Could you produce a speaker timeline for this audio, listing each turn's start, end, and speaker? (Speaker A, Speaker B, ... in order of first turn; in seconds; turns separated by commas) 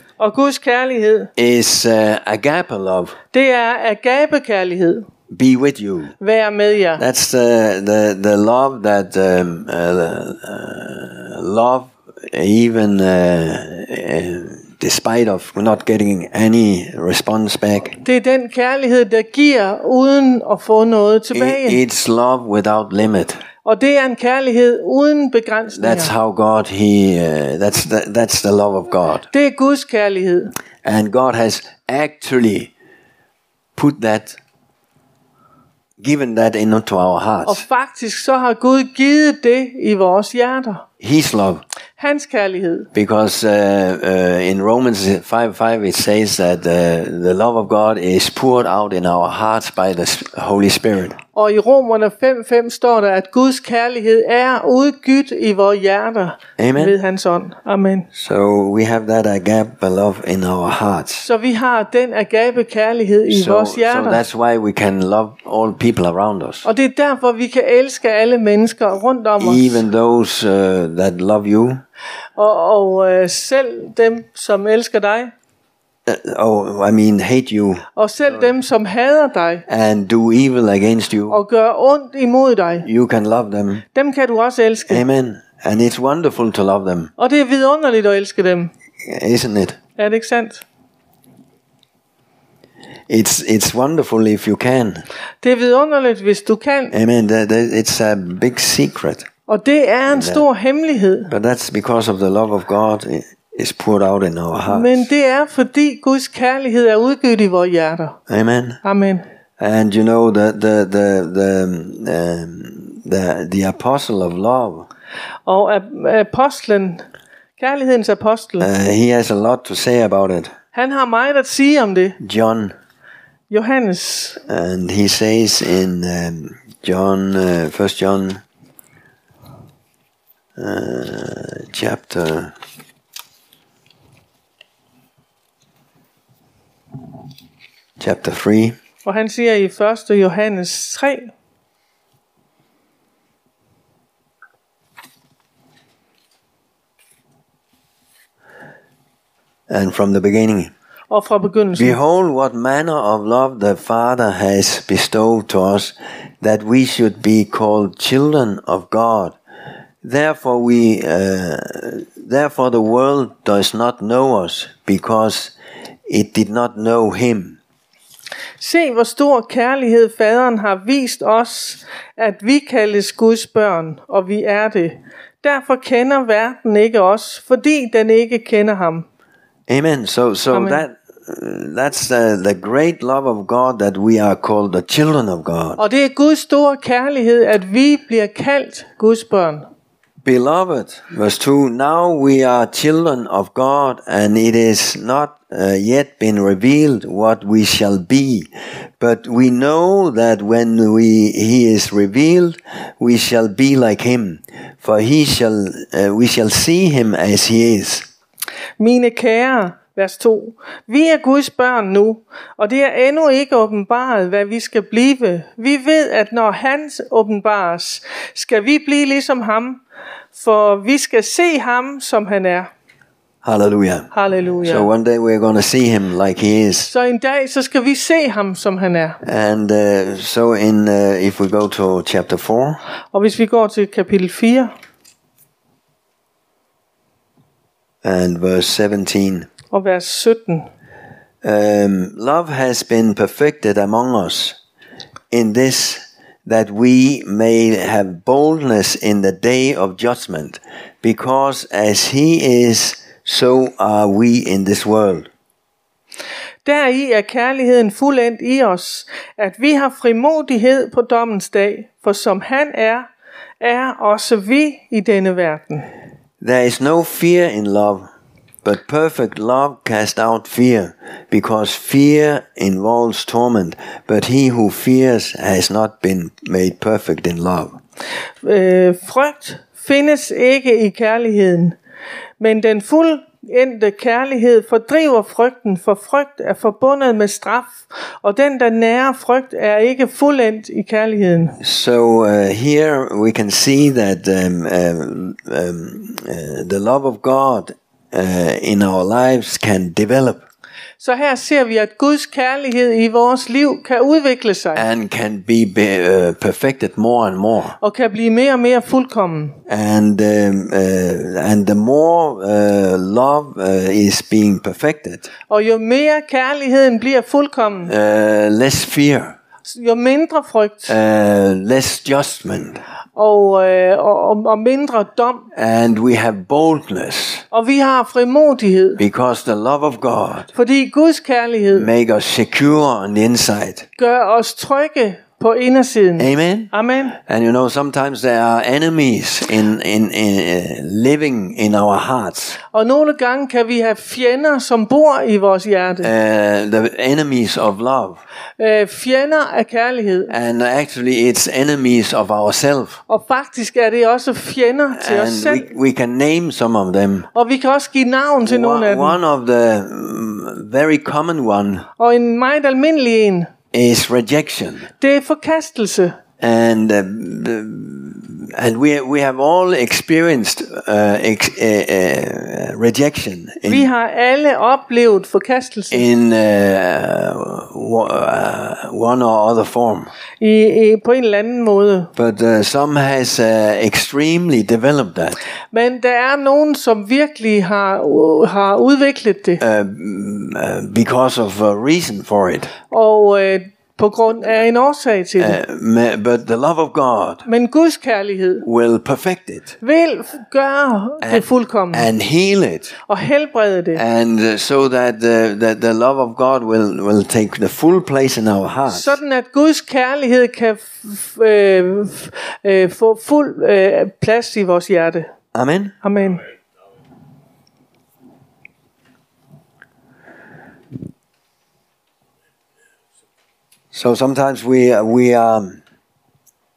Speaker A: 0.2-1.3, Speaker B: 1.4-3.2, Speaker A: 3.3-5.1, Speaker B: 5.3-6.1, Speaker A: 6.2-7.0, Speaker B: 7.0-18.0, Speaker A: 18.0-21.8, Speaker B: 21.3-23.4, Speaker A: 23.6-26.1, Speaker B: 25.8-29.3, Speaker A: 29.3-30.6, Speaker B: 30.8-32.7, Speaker B: 33.8-34.4, Speaker B: 36.0-37.6, Speaker A: 37.5-40.9, Speaker B: 41.0-41.6, Speaker A: 42.0-42.9, Speaker B: 42.9-51.2, Speaker A: 51.4-58.1, Speaker B: 56.6-57.0, Speaker B: 58.1-61.3, Speaker A: 61.2-64.2, Speaker B: 63.3-66.7, Speaker A: 66.6-69.8, Speaker B: 69.4-71.8, Speaker A: 72.4-75.3, Speaker B: 76.1-77.8, Speaker A: 78.0-79.7, Speaker B: 79.7-81.4, Speaker A: 81.3-82.9, Speaker B: 82.8-83.8, Speaker A: 83.9-85.0, Speaker B: 84.9-87.1, Speaker A: 87.2-88.7, Speaker B: 89.0-89.8, Speaker A: 90.0-90.6, Speaker B: 93.1-95.0, Speaker A: 95.4-96.9, Speaker B: 96.9-99.3, Speaker A: 99.5-101.3, Speaker B: 100.1-100.5, Speaker B: 101.3-105.1, Speaker A: 104.7-108.2, Speaker B: 108.3-108.8, Speaker A: 108.8-109.2, Speaker B: 109.6-114.9, Speaker A: 115.5-117.0, Speaker A: 117.6-118.7, Speaker B: 118.6-120.5, Speaker A: 120.7-122.2, Speaker B: 122.2-122.7, Speaker A: 123.5-124.4, Speaker B: 124.5-128.4, Speaker B: 130.6-132.5, Speaker B: 138.0-138.8, Speaker A: 139.1-141.3, Speaker B: 149.7-150.7, Speaker A: 151.1-152.0, Speaker B: 151.8-159.4, Speaker B: 160.0-165.5, Speaker B: 166.1-167.6, Speaker A: 168.6-179.1, Speaker B: 179.7-185.8, Speaker A: 180.5-180.8, Speaker A: 185.8-189.7, Speaker B: 190.2-198.5, Speaker B: 199.0-208.1, Speaker A: 208.8-219.8, Speaker A: 220.3-222.7, Speaker B: 223.4-224.1, Speaker A: 224.1-224.9, Speaker B: 224.6-226.9, Speaker A: 226.9-229.2, Speaker B: 229.2-232.8, Speaker A: 233.1-234.7, Speaker B: 238.0-239.5, Speaker A: 239.7-240.7, Speaker B: 241.4-244.6, Speaker B: 245.3-255.3, Speaker A: 256.6-263.1, Speaker A: 263.6-265.9, Speaker B: 266.4-268.1, Speaker B: 268.6-277.8, Speaker A: 278.4-281.8, Speaker A: 282.4-291.6, Speaker B: 291.6-300.4, Speaker A: 301.0-304.9, Speaker B: 304.7-307.8, Speaker A: 307.8-309.6, Speaker B: 309.7-315.3, Speaker A: 315.5-317.9, Speaker B: 317.9-319.4, Speaker A: 319.7-320.9, Speaker B: 320.9-322.8, Speaker A: 323.2-325.5, Speaker B: 325.5-327.4, Speaker A: 327.5-329.0, Speaker B: 329.0-330.5, Speaker A: 330.5-331.9, Speaker B: 331.7-333.9, Speaker A: 334.0-337.2, Speaker B: 336.2-342.6, Speaker A: 342.7-346.1, Speaker B: 346.0-348.2, Speaker A: 348.6-350.3, Speaker B: 350.3-353.0, Speaker A: 353.1-355.7, Speaker B: 354.9-357.3, Speaker A: 357.3-359.2, Speaker B: 358.4-361.9, Speaker A: 362.0-363.5, Speaker B: 363.7-364.9, Speaker A: 365.0-366.2, Speaker B: 366.4-373.9, Speaker A: 373.7-376.1, Speaker B: 375.9-380.1, Speaker A: 380.4-382.1, Speaker B: 382.2-385.4, Speaker A: 385.7-389.6, Speaker B: 389.6-392.7, Speaker A: 392.9-395.6, Speaker B: 395.4-397.4, Speaker A: 397.5-398.7, Speaker B: 398.6-399.8, Speaker A: 399.8-402.1, Speaker B: 401.2-402.9, Speaker A: 403.1-404.0, Speaker B: 403.9-409.2, Speaker A: 408.9-415.3, Speaker B: 415.5-415.9, Speaker A: 416.0-416.4, Speaker B: 423.9-425.8